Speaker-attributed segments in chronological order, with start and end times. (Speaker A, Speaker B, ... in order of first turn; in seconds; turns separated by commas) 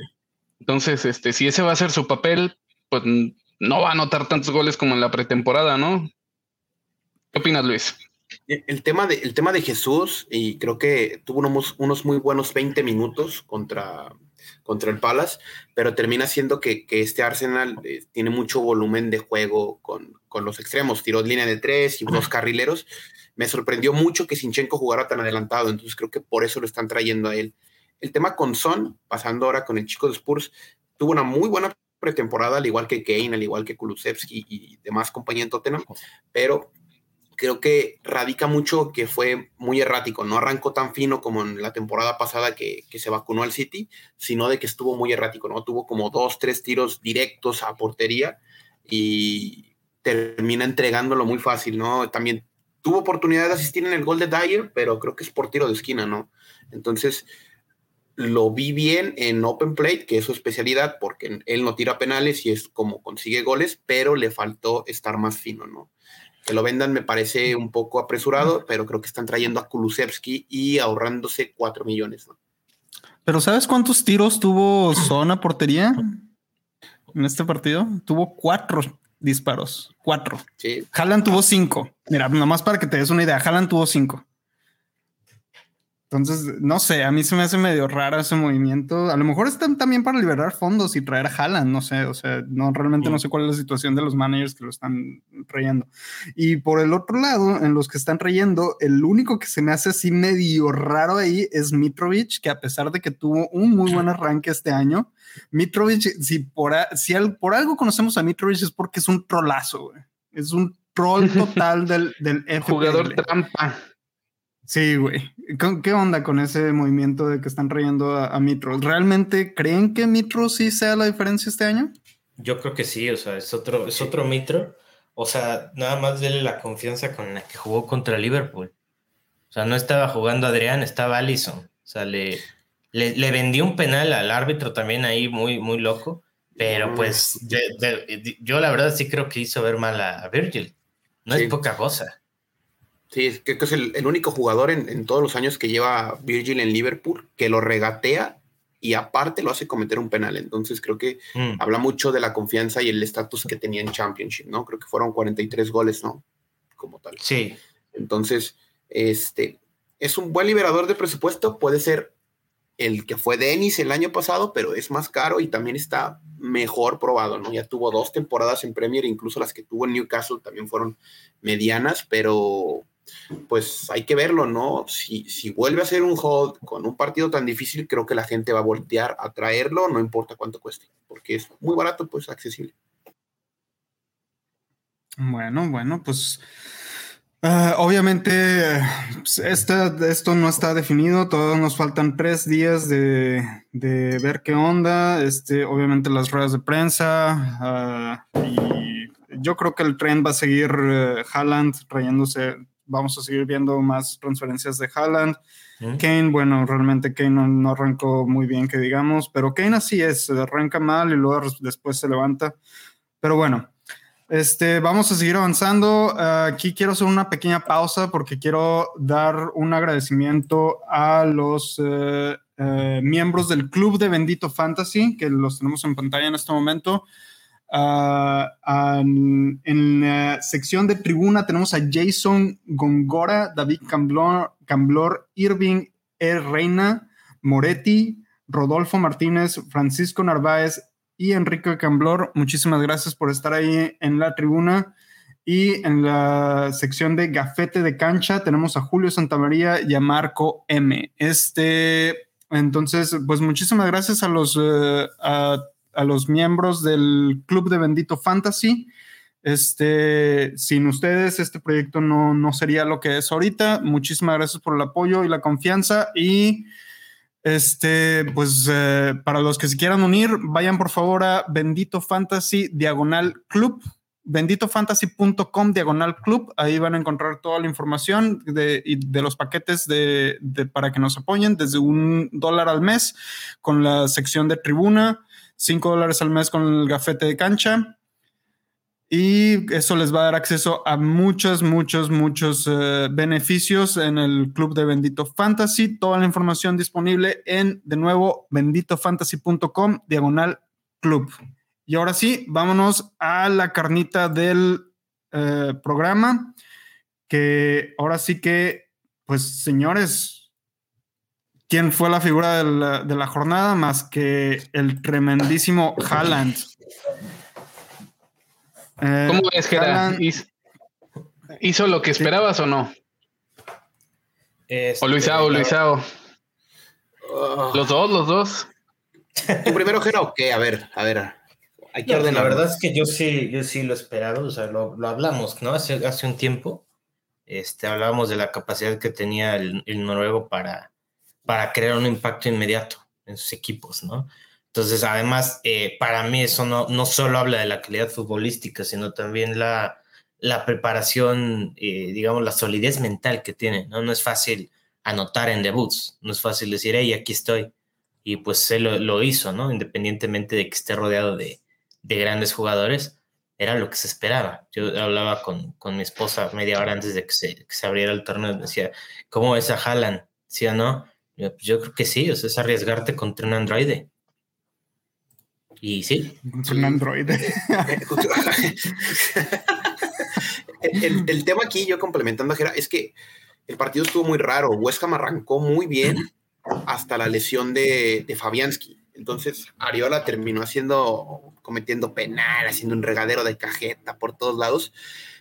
Speaker A: 0.6-6.1, Speaker A: 7.3-8.0, Speaker B: 8.5-22.9, Speaker B: 23.4-36.7, Speaker B: 37.4-57.3, Speaker B: 58.2-65.9, Speaker B: 66.4-72.3, Speaker C: 73.2-76.2, Speaker C: 77.1-84.2, Speaker B: 80.6-80.9, Speaker C: 86.1-113.2, Speaker A: 112.6-113.8, Speaker C: 114.7-122.0, Speaker D: 122.4-128.7, Speaker D: 129.5-142.2, Speaker B: 136.6-137.3, Speaker B: 143.1-156.2, Speaker D: 151.4-151.6, Speaker B: 156.8-157.2, Speaker D: 157.2-157.6, Speaker B: 157.9-162.1, Speaker B: 162.8-172.9, Speaker B: 173.5-182.7, Speaker C: 185.2-186.4, Speaker C: 187.4-205.4, Speaker C: 206.0-212.6, Speaker C: 213.2-213.7, Speaker C: 214.3-227.1, Speaker C: 227.7-244.9, Speaker C: 245.5-258.9, Speaker C: 259.4-266.7, Speaker C: 267.4-288.0, Speaker C: 289.1-301.4, Speaker C: 301.9-306.6, Speaker C: 307.3-310.4, Speaker C: 311.7-316.7, Speaker C: 319.0-320.2, Speaker A: 319.3-320.5, Speaker A: 321.6-322.9, Speaker D: 324.7-325.8, Speaker A: 325.0-326.0, Speaker B: 327.2-327.9, Speaker A: 327.7-328.7, Speaker B: 329.6-331.4, Speaker B: 331.9-332.7, Speaker D: 332.1-336.9, Speaker D: 337.5-340.9, Speaker D: 341.5-357.7, Speaker D: 358.2-374.1, Speaker D: 375.8-376.4, Speaker C: 376.5-378.0, Speaker B: 376.7-377.0, Speaker B: 377.9-380.3, Speaker B: 380.8-383.1, Speaker B: 383.7-386.3, Speaker B: 386.9-394.9